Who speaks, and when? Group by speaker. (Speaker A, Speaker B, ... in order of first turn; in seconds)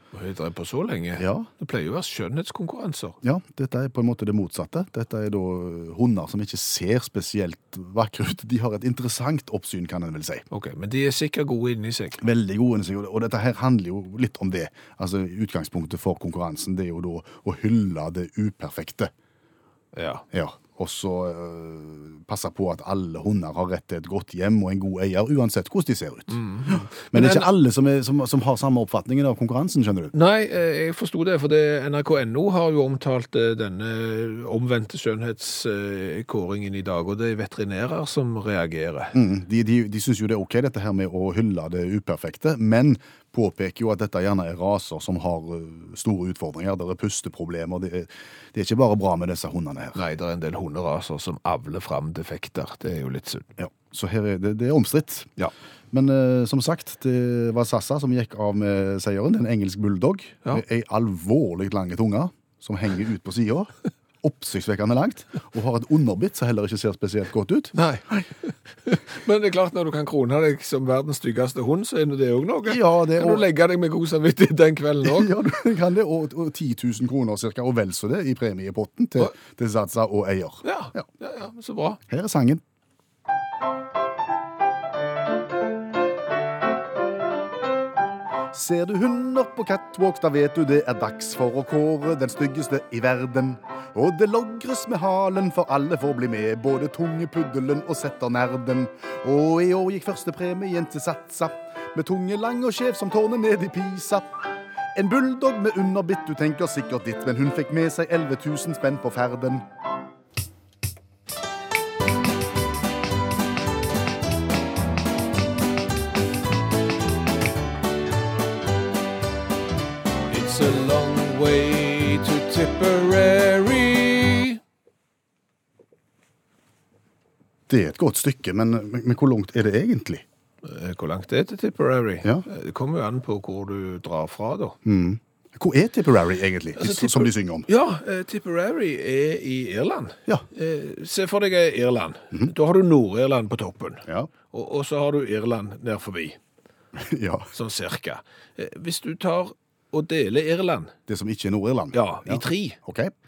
Speaker A: 0.1-3.2, 10.5-12.2, 19.9-20.2, 26.3-27.5, 30.1-39.1, 50.0-53.5, 67.7-75.3, 80.6-82.0, 120.3-124.6, 130.6-134.8, 136.8-146.4, 147.5-150.9, 151.9-152.8
Speaker B: 1.2-1.5, 3.2-10.5, 12.2-19.1, 20.3-30.1, 39.1-50.0, 53.6-55.3, 55.9-67.7, 72.7-73.5, 75.0-81.0, 82.1-82.6, 88.5-104.4, 105.0-109.7, 127.7-130.2, 134.8-137.7, 144.1-144.3, 146.9-147.5, 151.1-153.1